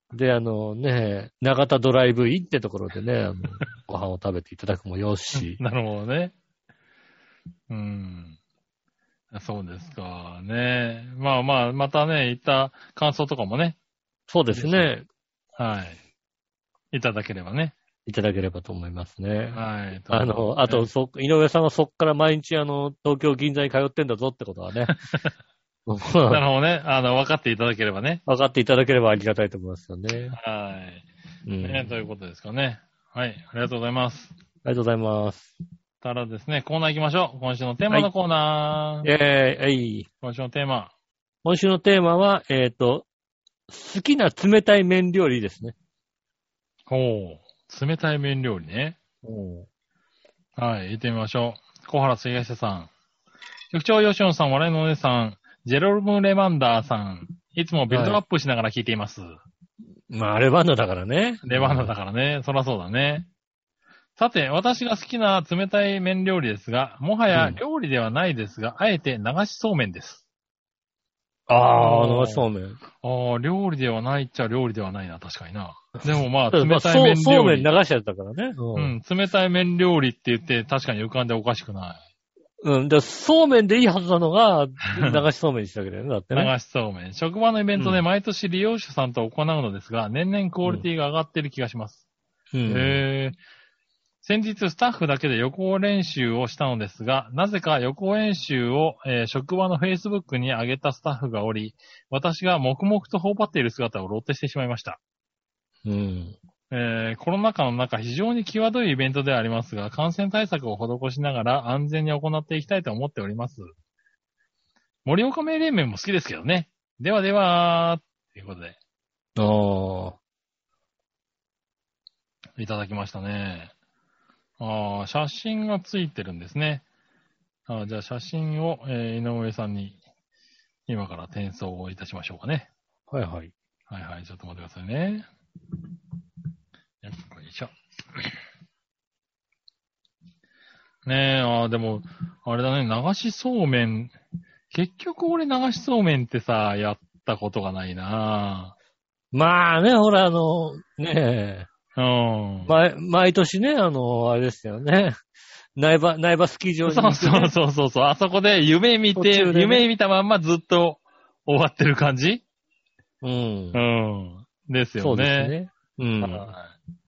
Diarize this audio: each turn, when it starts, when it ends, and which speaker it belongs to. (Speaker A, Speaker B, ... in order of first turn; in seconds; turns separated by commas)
Speaker A: 0.1-5.6, Speaker B: 5.3-6.3, Speaker B: 7.7-8.3, Speaker B: 9.3-13.8, Speaker A: 14.3-15.1, Speaker B: 14.5-14.9, Speaker B: 15.6-16.0, Speaker B: 16.9-17.7, Speaker A: 18.1-24.9, Speaker B: 19.5-20.9, Speaker B: 24.9-25.3, Speaker A: 25.9-26.4, Speaker B: 26.3-28.2, Speaker A: 28.3-30.3, Speaker B: 30.3-31.1, Speaker A: 31.4-31.9, Speaker B: 31.6-34.3, Speaker A: 34.6-35.5, Speaker B: 36.0-39.1, Speaker A: 39.0-40.1, Speaker B: 40.2-40.9, Speaker A: 41.4-43.1, Speaker A: 43.7-45.7, Speaker B: 46.9-49.0, Speaker A: 49.2-49.7, Speaker B: 50.6-52.9, Speaker B: 53.7-59.4, Speaker A: 57.9-58.2, Speaker A: 60.1-61.9, Speaker B: 61.4-63.3, Speaker B: 64.2-70.2, Speaker A: 67.3-67.6, Speaker A: 71.5-72.8, Speaker B: 71.8-72.5, Speaker B: 73.0-77.7, Speaker A: 76.5-79.0, Speaker B: 78.7-82.0, Speaker A: 82.6-86.5, Speaker B: 86.3-92.0, Speaker A: 92.5-93.0, Speaker B: 92.7-93.3, Speaker B: 94.2-105.0, Speaker A: 105.8-106.3, Speaker B: 106.7-113.7, Speaker B: 115.0-118.8, Speaker A: 119.4-120.2, Speaker B: 122.6-123.7, Speaker B: 124.6-126.8, Speaker B: 127.7-130.0, Speaker B: 130.9-132.7, Speaker A: 133.1-133.5, Speaker B: 133.9-135.3, Speaker B: 137.0-138.3, Speaker B: 141.0-144.1, Speaker B: 144.7-148.7, Speaker A: 149.3-151.7, Speaker B: 151.9-152.7, Speaker A: 152.7-155.2, Speaker A: 155.8-157.5, Speaker B: 156.8-162.4, Speaker A: 159.1-159.9, Speaker A: 163.2-163.8, Speaker B: 163.7-165.5, Speaker A: 165.0-166.5, Speaker B: 166.2-166.7